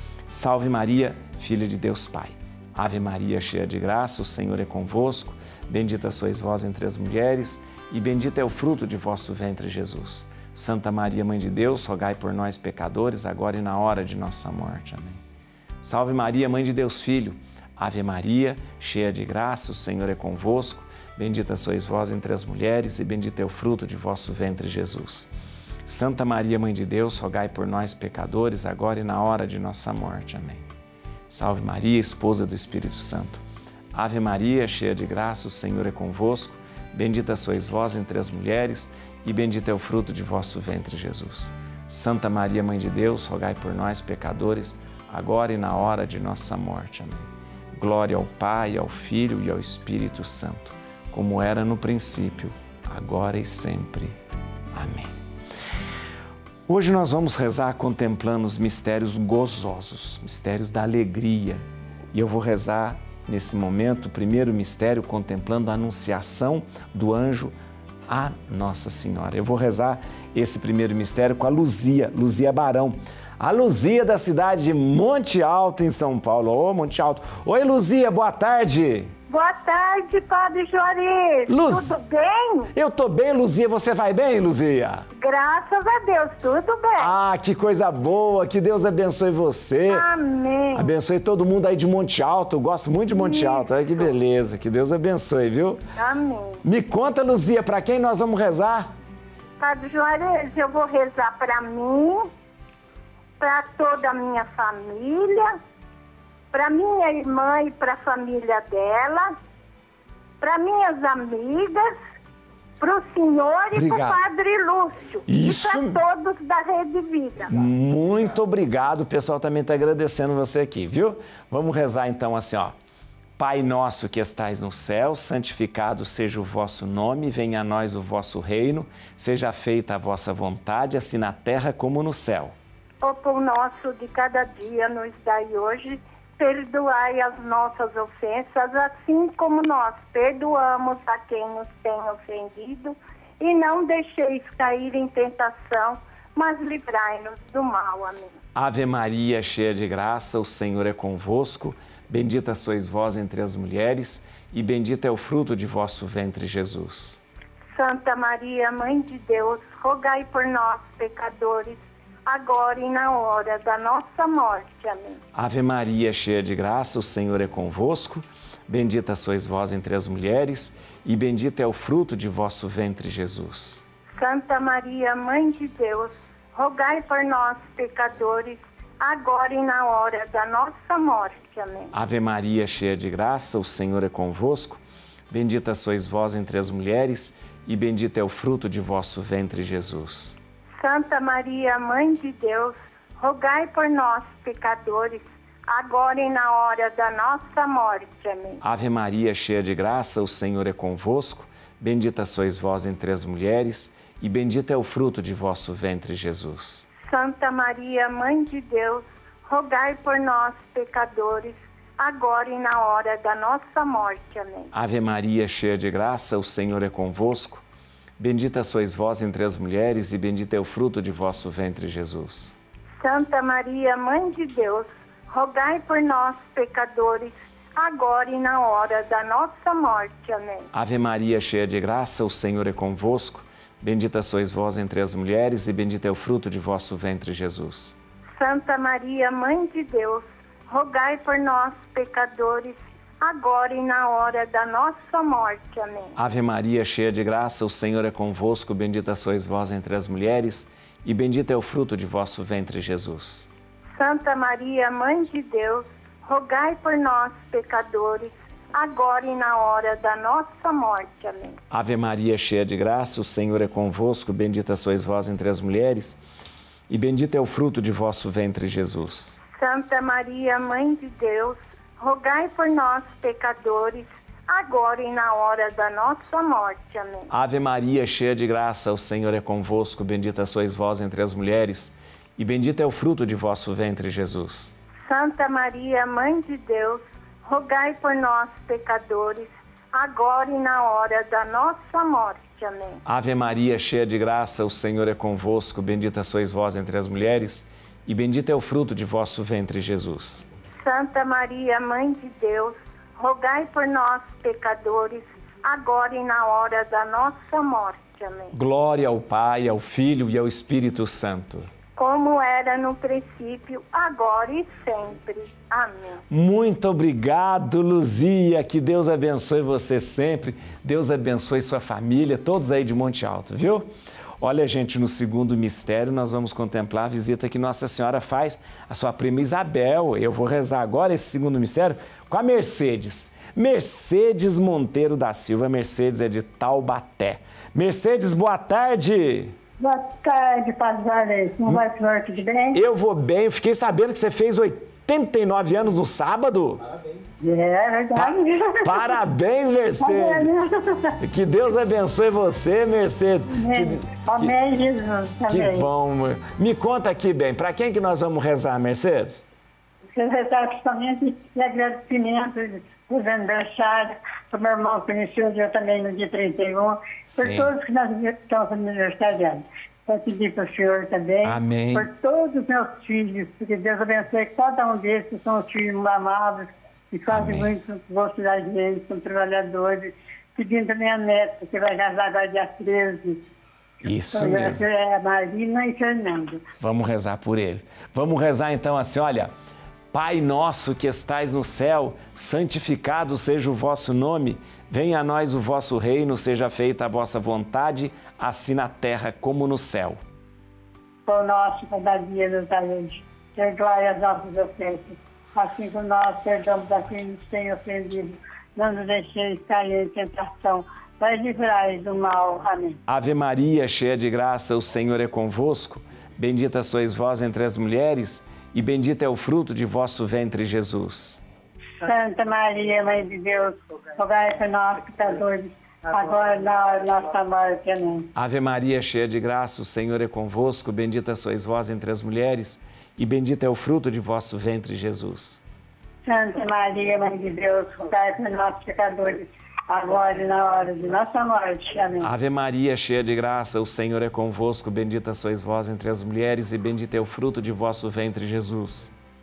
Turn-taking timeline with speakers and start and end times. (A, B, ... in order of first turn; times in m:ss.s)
0:00.3-0:15.2 A
0:15.8-0:25.3 A
0:25.8-0:30.6 A
0:31.3-0:33.4 A
0:33.9-0:54.2 A
0:54.7-0:55.2 A
0:56.7-1:07.5 A
1:08.1-1:19.1 A
1:19.3-1:22.7 B
1:21.5-1:22.0 A
1:22.7-1:25.0 A
1:25.1-1:27.2 B
1:27.0-1:30.1 A
1:29.9-1:30.9 B
1:30.7-1:35.8 A
1:33.1-1:33.7 B
1:36.0-1:36.6 B
1:36.6-1:38.9 A
1:39.6-1:42.3 B
1:43.4-1:45.5 B
1:46.5-1:49.3 B
1:50.4-1:51.9 B
1:52.8-1:57.6 B
1:53.7-1:54.2 A
1:55.3-1:56.0 A
1:57.5-2:02.7 A
2:03.4-2:12.5 A
2:13.0-2:28.3 B
2:28.5-2:37.2 A
2:37.7-2:45.2 B
2:45.3-2:53.8 A
2:54.1-3:01.9 B
3:01.9-3:10.4 A
3:10.8-3:18.6 B
3:18.6-3:26.9 A
3:27.0-3:34.7 B
3:34.7-3:37.6 A
3:38.2-3:42.6 A
3:43.0-3:50.7 B
3:50.7-3:58.0 A
3:58.4-4:06.2 B
4:06.2-4:13.5 A
4:13.9-4:21.6 B
4:21.7-4:26.2 A
4:26.9-4:29.4 A
4:29.6-4:37.3 B
4:37.3-4:44.7 A
4:45.0-4:53.0 B
4:53.0-5:00.5 A
5:00.8-5:08.5 B
5:08.5-5:11.7 A
5:12.0-5:16.2 B
5:16.3-5:23.9 A
5:24.4-5:39.6 A
5:39.8-5:42.8 C
5:42.7-5:46.9 A
5:47.4-5:49.1 C
5:48.1-5:50.5 A
5:50.0-5:51.2 C
5:51.2-5:54.6 A
5:53.5-5:55.9 C
5:55.5-5:59.4 A
6:00.1-6:23.4 C
6:07.3-6:07.7 A
6:11.4-6:12.1 A
6:17.3-6:17.7 A
6:24.0-6:24.8 A
6:24.3-6:26.6 C
6:26.8-6:29.5 A
6:30.1-6:40.2 A
6:41.2-6:53.0 C
6:53.1-7:01.4 A
7:02.0-7:08.3 C
7:08.3-7:15.6 A
7:16.2-7:22.3 C
7:22.2-7:29.1 A